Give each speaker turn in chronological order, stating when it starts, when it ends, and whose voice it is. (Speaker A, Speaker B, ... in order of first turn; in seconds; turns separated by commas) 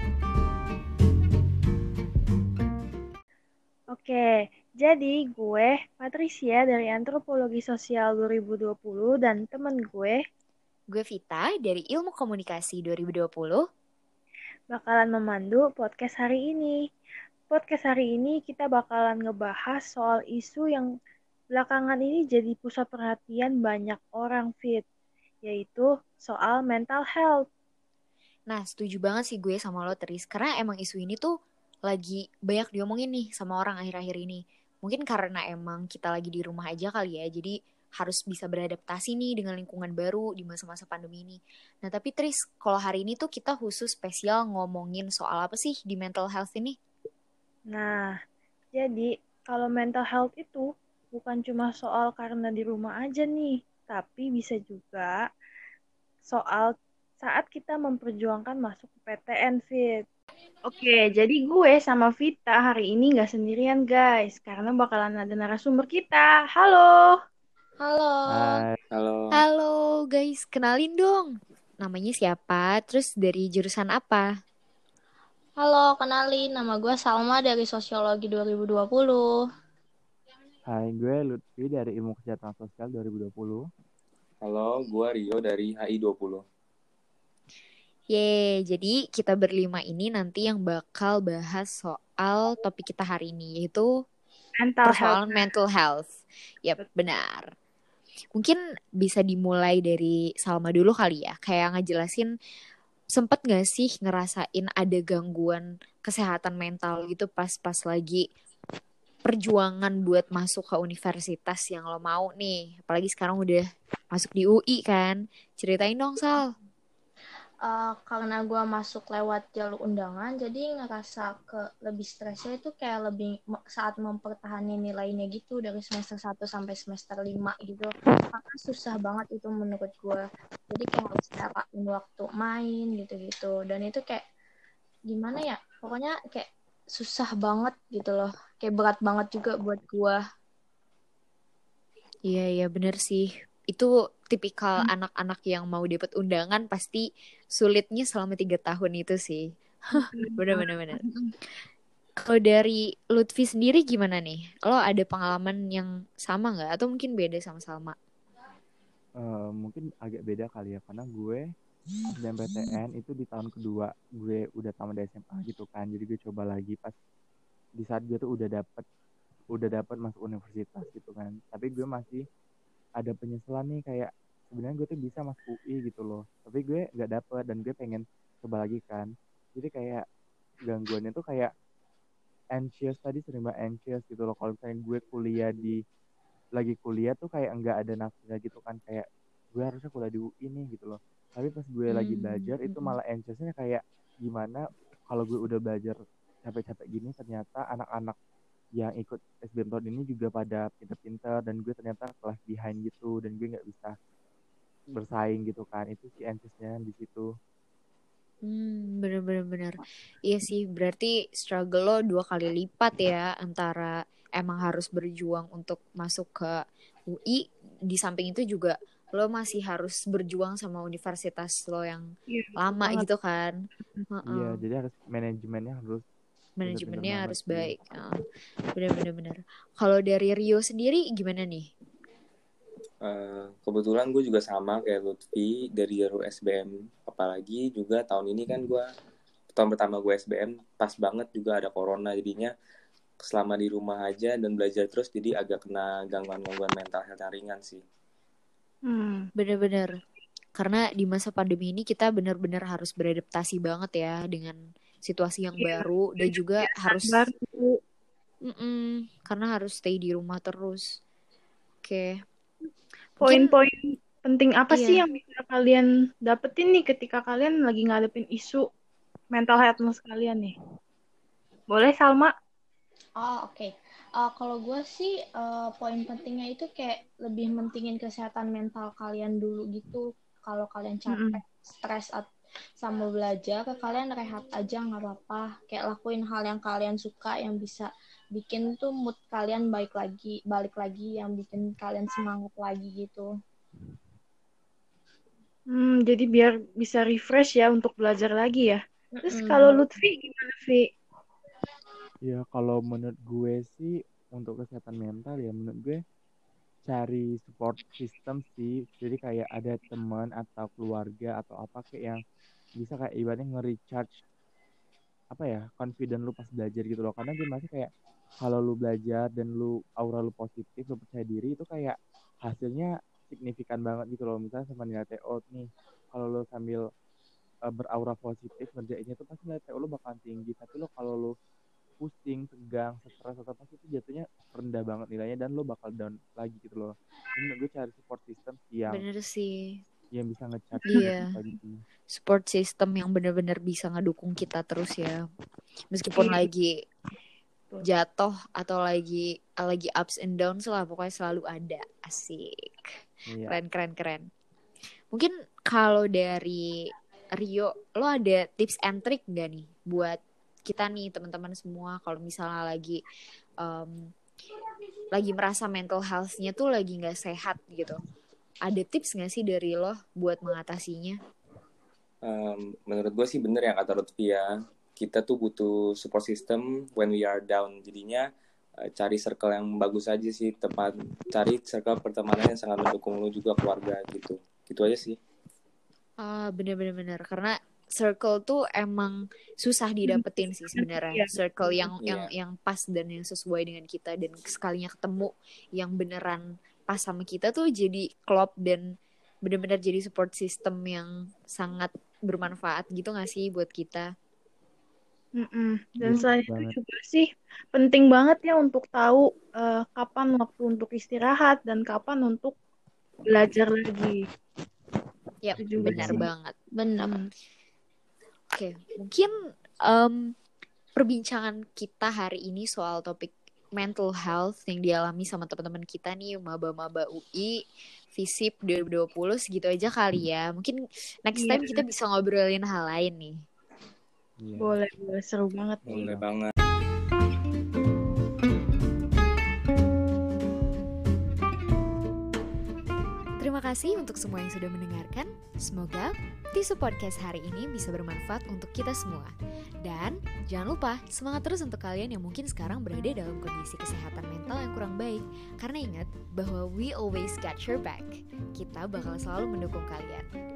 Speaker A: 3.9-10.2, Speaker B: 10.9-13.6, Speaker A: 14.7-16.8, Speaker A: 17.5-20.9, Speaker A: 21.5-24.8, Speaker A: 25.4-27.4, Speaker B: 28.5-31.3, Speaker B: 31.9-46.8, Speaker A: 47.7-48.1, Speaker A: 48.7-55.2, Speaker A: 56.2-60.0, Speaker A: 60.7-67.1, Speaker C: 67.8-68.6, Speaker D: 68.3-68.8, Speaker E: 68.9-69.4, Speaker B: 69.3-74.3, Speaker C: 75.6-79.3, Speaker D: 80.7-83.6, Speaker E: 84.4-86.4, Speaker B: 88.1-93.9, Speaker A: 94.6-95.4, Speaker B: 94.8-96.1, Speaker B: 96.6-97.5, Speaker B: 98.3-102.3, Speaker B: 103.1-108.2, Speaker B: 109.2-116.5, Speaker C: 117.6-134.2, Speaker C: 135.1-140.2, Speaker B: 142.2-151.0, Speaker A: 149.9-151.3, Speaker B: 152.2-157.9, Speaker D: 159.2-161.4, Speaker D: 162.2-166.9, Speaker D: 167.8-168.8, Speaker D: 169.5-172.2, Speaker D: 173.0-180.0, Speaker D: 180.7-181.5, Speaker D: 182.6-185.8, Speaker D: 186.6-198.2, Speaker B: 191.9-193.0, Speaker D: 198.8-203.9, Speaker D: 205.0-207.3, Speaker B: 208.4-222.1, Speaker A: 222.3-223.1, Speaker B: 222.6-223.6, Speaker A: 223.8-224.1, Speaker B: 224.1-224.6, Speaker D: 224.2-226.0, Speaker B: 226.6-228.2, Speaker D: 226.6-227.7, Speaker B: 228.7-231.7, Speaker E: 233.0-238.9, Speaker E: 239.5-242.5, Speaker E: 243.2-247.8, Speaker A: 248.9-249.2, Speaker B: 249.3-249.9, Speaker B: 250.6-257.2, Speaker A: 255.6-257.7, Speaker B: 258.4-261.0, Speaker B: 261.8-262.2, Speaker A: 263.2-268.7, Speaker B: 263.2-263.5, Speaker B: 264.7-265.0, Speaker A: 269.3-270.5, Speaker A: 271.7-272.3, Speaker C: 273.2-282.2, Speaker A: 281.1-281.4, Speaker C: 282.8-293.3, Speaker A: 295.7-300.9, Speaker C: 299.2-299.8, Speaker D: 302.2-306.0, Speaker D: 306.9-312.2, Speaker D: 312.8-314.1, Speaker D: 315.3-317.9, Speaker D: 318.4-326.8, Speaker D: 327.7-331.3, Speaker D: 332.0-339.0, Speaker B: 338.9-339.8, Speaker D: 340.1-341.8, Speaker B: 340.9-341.3, Speaker B: 342.1-345.2, Speaker B: 345.9-346.8, Speaker A: 346.1-346.4, Speaker B: 347.9-352.9, Speaker D: 353.3-353.6, Speaker B: 353.4-354.2, Speaker B: 355.1-356.8, Speaker B: 357.4-363.0, Speaker B: 363.6-364.1, Speaker B: 365.1-368.0, Speaker B: 368.6-371.2, Speaker E: 372.2-378.2, Speaker E: 378.9-385.2, Speaker B: 386.2-398.8, Speaker A: 390.1-391.3, Speaker E: 391.9-392.3, Speaker B: 399.4-404.1, Speaker A: 405.4-412.5, Speaker D: 406.0-406.7, Speaker A: 413.2-414.2, Speaker B: 415.4-416.5, Speaker D: 415.5-416.3, Speaker A: 415.6-416.3, Speaker C: 416.7-417.1, Speaker B: 418.5-419.3, Speaker B: 419.9-420.3, Speaker B: 421.0-427.6, Speaker B: 428.1-433.4, Speaker A: 431.3-431.9, Speaker D: 434.4-434.7, Speaker A: 434.6-436.1, Speaker E: 435.9-436.5, Speaker D: 435.9-436.2, Speaker B: 443.4-460.2